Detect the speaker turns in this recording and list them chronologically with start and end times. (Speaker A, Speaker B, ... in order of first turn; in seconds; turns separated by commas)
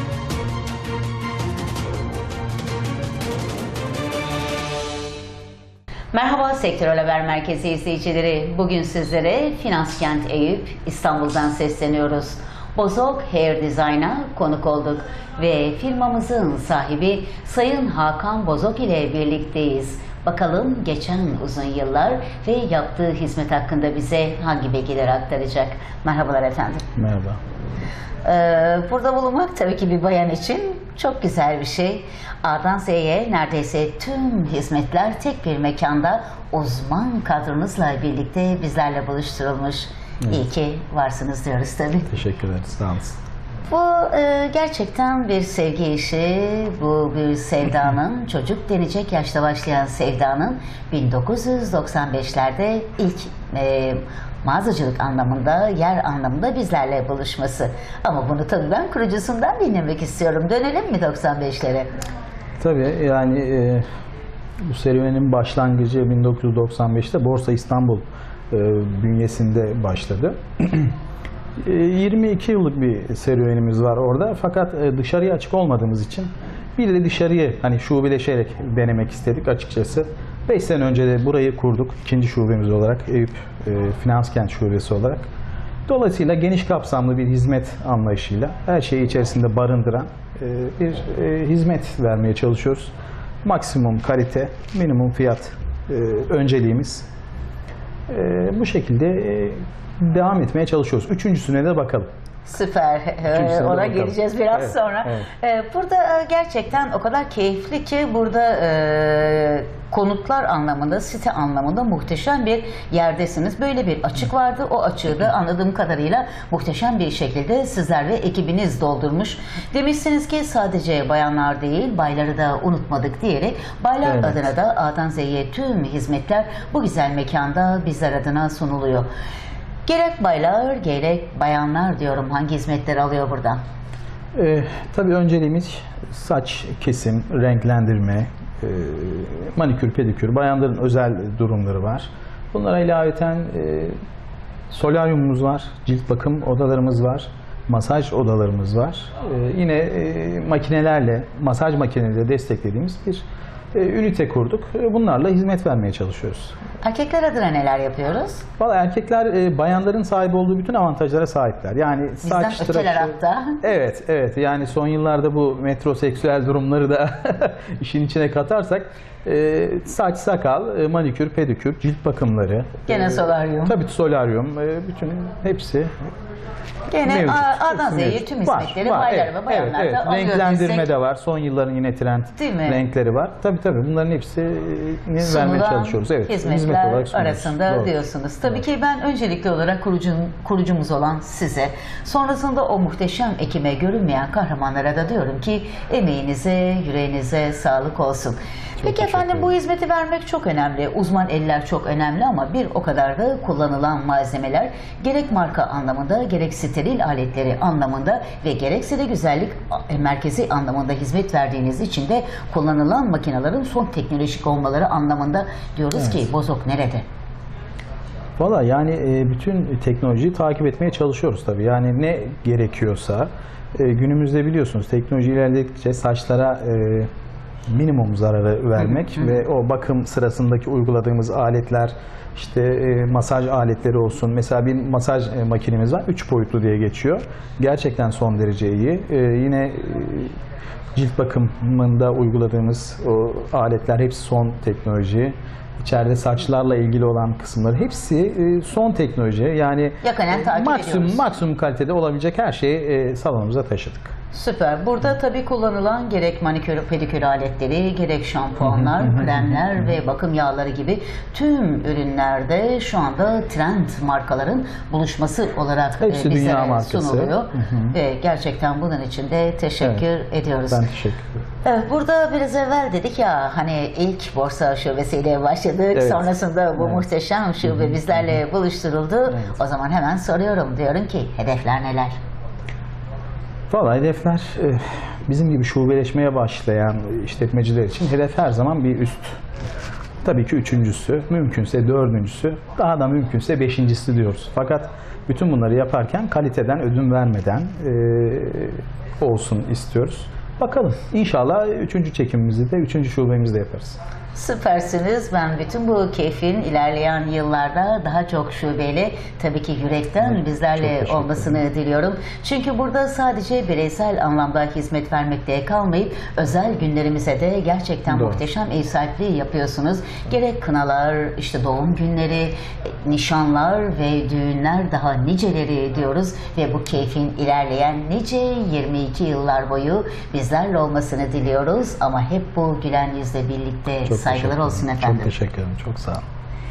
Speaker A: 6.1-26.9, Speaker B: 27.0-27.4, Speaker A: 28.2-42.2, Speaker B: 42.1-43.2, Speaker A: 43.7-61.9, Speaker B: 62.6-63.9, Speaker B: 64.6-70.9, Speaker B: 71.6-85.3, Speaker B: 85.9-92.9, Speaker B: 93.5-97.1, Speaker B: 98.1-102.1, Speaker A: 102.5-129.1, Speaker B: 103.3-105.3, Speaker B: 124.0-124.5, Speaker A: 129.9-133.6, Speaker B: 134.3-144.0, Speaker B: 144.7-156.6, Speaker A: 156.8-158.4, Speaker B: 158.6-175.9, Speaker A: 162.2-163.6, Speaker A: 172.9-173.8, Speaker A: 176.9-180.9, Speaker B: 177.1-188.6, Speaker A: 182.3-182.8, Speaker A: 185.2-217.1, Speaker B: 198.8-199.5, Speaker B: 215.9-216.2, Speaker B: 218.4-227.1, Speaker B: 227.7-240.3, Speaker A: 228.9-229.4, Speaker B: 240.9-254.1, Speaker A: 250.0-251.4, Speaker A: 254.3-270.9, Speaker B: 258.6-259.9, Speaker B: 266.0-267.9, Speaker B: 270.7-271.4, Speaker A: 271.6-282.2, Speaker B: 275.9-277.0, Speaker B: 277.6-278.4, Speaker B: 279.3-279.6, Speaker B: 283.7-289.4, Speaker B: 290.2-304.0, Speaker A: 304.3-335.4, Speaker B: 310.2-311.6, Speaker B: 318.1-318.4, Speaker B: 334.0-336.2